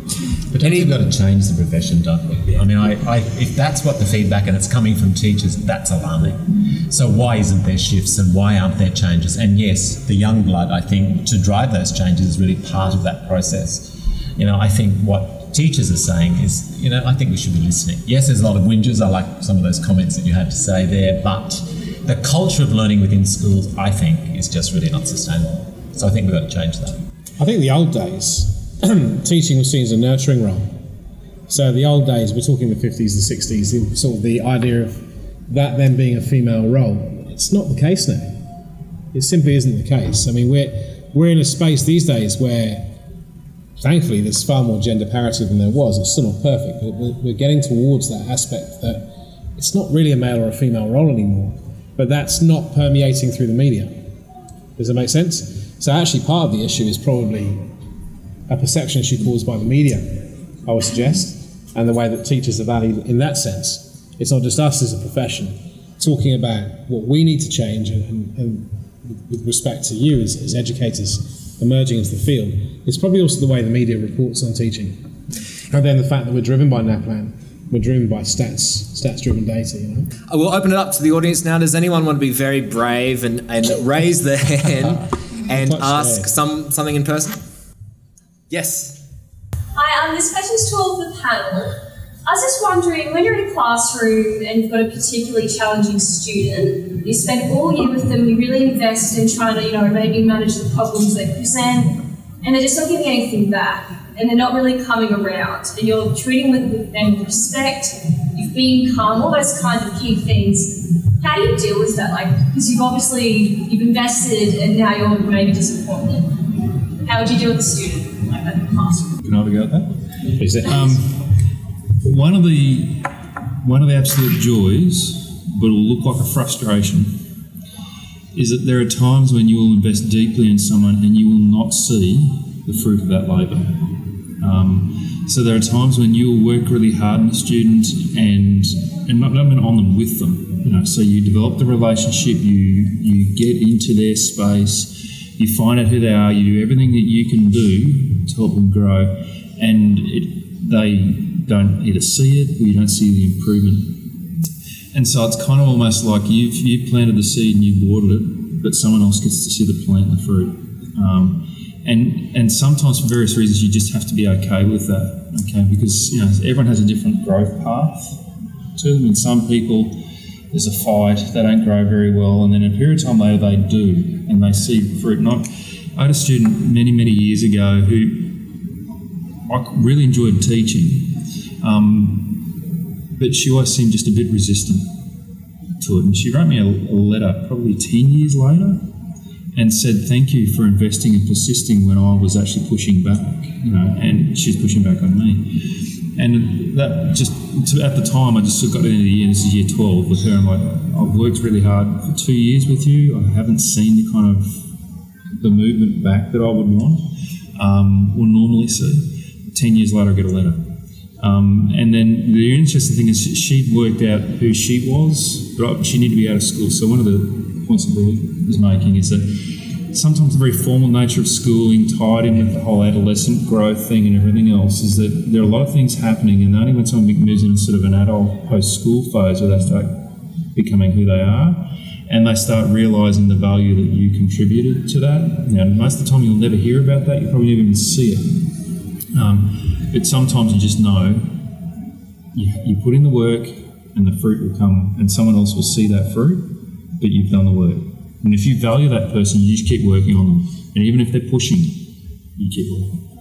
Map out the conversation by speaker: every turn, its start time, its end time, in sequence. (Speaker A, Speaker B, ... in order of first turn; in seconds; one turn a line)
Speaker A: 0.5-27.0
Speaker B: 0.6-0.9
Speaker C: 27.4-30.7
Speaker C: 31.5-38.4
Speaker C: 39.1-42.9
Speaker C: 43.8-53.9
Speaker C: 54.8-57.6
Speaker C: 58.5-75.1
Speaker C: 75.7-80.1
Speaker B: 80.3-87.4
Speaker C: 85.5-86.3
Speaker B: 88.5-89.0
Speaker D: 89.8-119.1
Speaker E: 119.2-119.9
Speaker C: 120.4-120.8
Speaker E: 120.6-121.2
Speaker E: 122.0-127.2
Speaker E: 128.3-154.1
Speaker E: 154.9-168.2
Speaker E: 168.8-178.4
Speaker E: 179.5-182.5
Speaker E: 183.2-184.9
Speaker E: 185.8-188.8
Speaker E: 189.6-195.6
Speaker E: 196.1-204.7
Speaker E: 205.4-210.7
Speaker E: 211.2-238.5
Speaker E: 239.1-241.4
Speaker E: 242.3-253.0